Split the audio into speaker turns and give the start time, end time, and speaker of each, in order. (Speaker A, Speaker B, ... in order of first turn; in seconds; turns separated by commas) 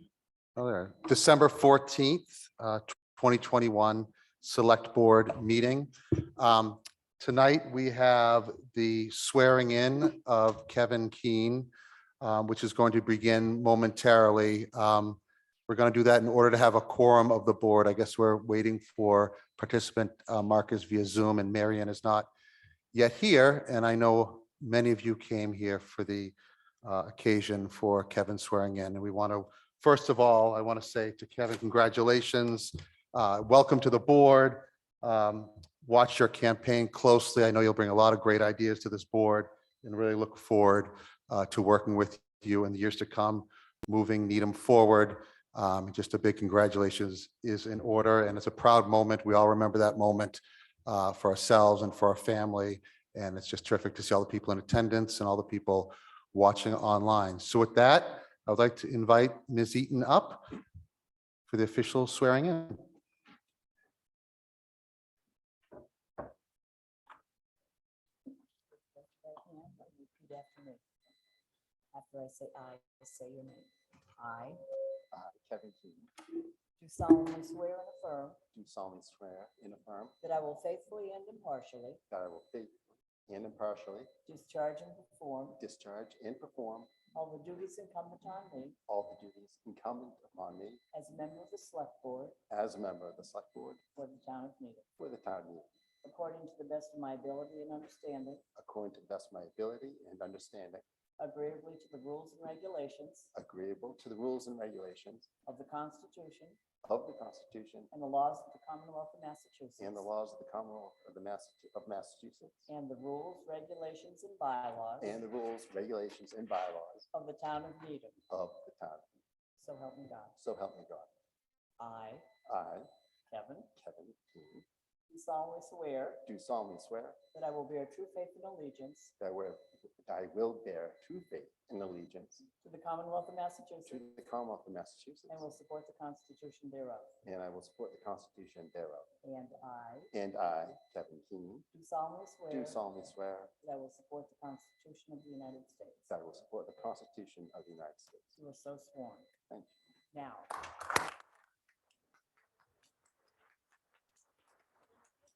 Speaker A: 0.6-11.7, Speaker A: 12.2-22.3, Speaker A: 22.9-60.5, Speaker A: 61.5-62.8, Speaker B: 68.7-70.8, Speaker B: 71.9-74.6, Speaker C: 75.1-76.1, Speaker B: 76.8-78.4, Speaker C: 78.5-80.2, Speaker B: 80.2-82.0, Speaker C: 82.1-84.1, Speaker B: 84.3-85.6, Speaker C: 85.6-86.9, Speaker B: 87.1-88.8, Speaker C: 88.9-90.8, Speaker B: 90.9-92.4, Speaker C: 92.5-93.8, Speaker B: 94.0-94.9, Speaker C: 95.0-95.7, Speaker B: 96.0-98.4, Speaker C: 98.6-100.8, Speaker B: 101.2-103.3, Speaker C: 103.3-105.3, Speaker B: 105.5-106.6, Speaker C: 106.9-107.9, Speaker B: 107.9-110.1, Speaker C: 109.8-112.7, Speaker B: 112.7-115.2, Speaker C: 115.0-117.1, Speaker B: 117.1-118.2, Speaker C: 118.3-119.1, Speaker B: 119.6-120.4, Speaker C: 120.4-121.1, Speaker B: 121.8-122.3, Speaker C: 122.5-122.9, Speaker B: 123.3-123.7, Speaker C: 123.8-124.6, Speaker B: 125.1-126.2, Speaker C: 126.3-127.2, Speaker B: 127.3-129.1, Speaker C: 129.2-132.4, Speaker B: 132.6-134.0, Speaker C: 133.9-135.4, Speaker B: 135.3-137.1, Speaker C: 137.2-139.1, Speaker B: 139.2-140.1, Speaker C: 140.1-141.7, Speaker B: 141.7-142.8, Speaker C: 142.5-143.5, Speaker B: 143.6-146.1, Speaker C: 146.1-148.4, Speaker B: 148.4-149.3, Speaker B: 150.1-150.6